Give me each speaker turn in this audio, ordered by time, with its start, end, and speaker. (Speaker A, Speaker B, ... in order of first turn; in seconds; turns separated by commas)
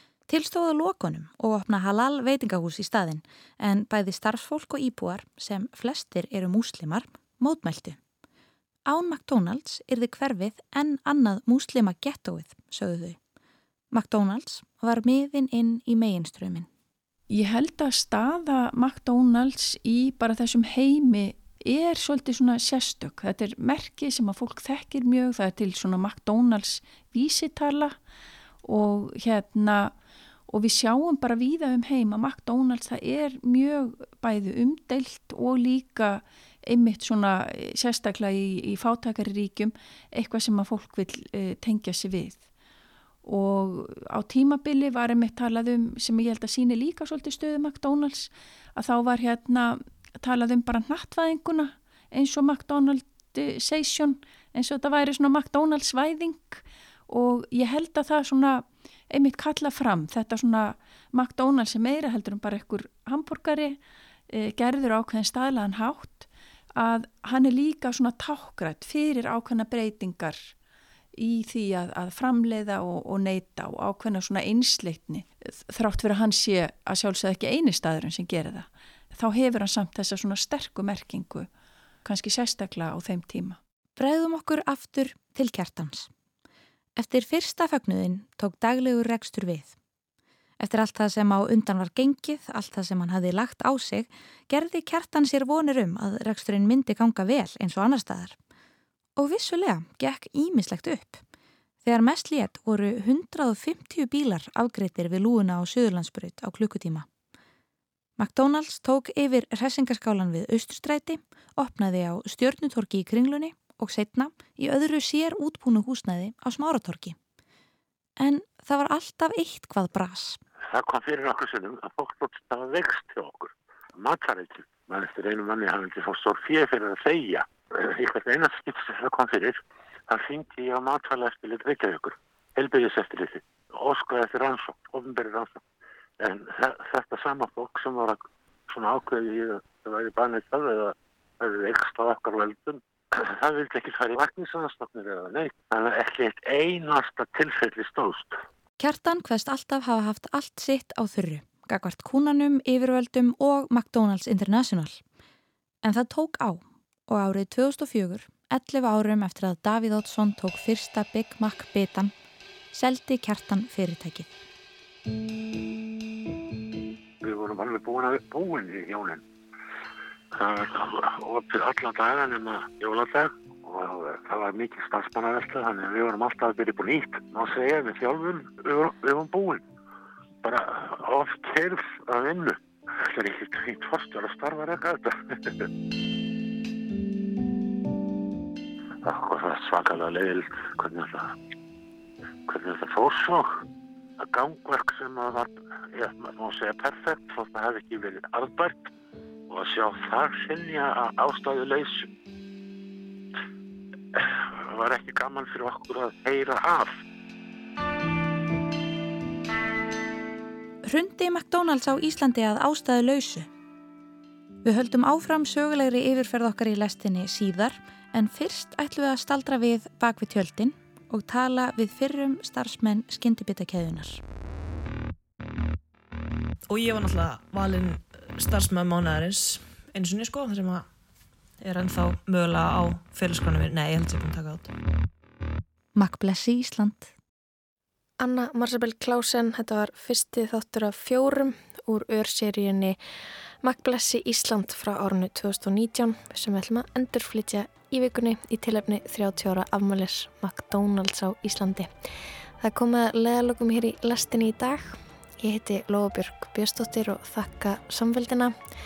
Speaker A: 0.3-8.0, Speaker A: 8.9-13.2, Speaker A: 13.9-16.7, Speaker B: 17.3-28.0, Speaker B: 28.6-29.9, Speaker B: 30.5-42.4, Speaker B: 43.2-70.5, Speaker B: 71.2-81.5, Speaker B: 82.0-83.6, Speaker A: 84.0-86.1, Speaker A: 87.0-89.7, Speaker A: 90.6-98.4, Speaker A: 99.2-101.2, Speaker A: 101.8-107.1, Speaker A: 108.2-117.2, Speaker A: 118.2-120.4, Speaker C: 120.7-135.6, Speaker C: 136.2-148.4, Speaker A: 148.8-155.0, Speaker A: 155.8-162.1, Speaker A: 162.7-164.3, Speaker C: 167.2-169.2, Speaker C: 170.3-179.6, Speaker C: 180.4-185.5, Speaker C: 189.0-191.3, Speaker C: 192.5-193.6, Speaker C: 194.2-198.9, Speaker C: 199.5-202.1, Speaker C: 204.2-206.9, Speaker A: 210.9-213.5, Speaker A: 214.6-224.2, Speaker D: 226.7-230.9, Speaker D: 231.6-234.7, Speaker A: 236.0-237.1, Speaker E: 238.2-243.0, Speaker E: 243.6-251.9, Speaker E: 252.6-258.6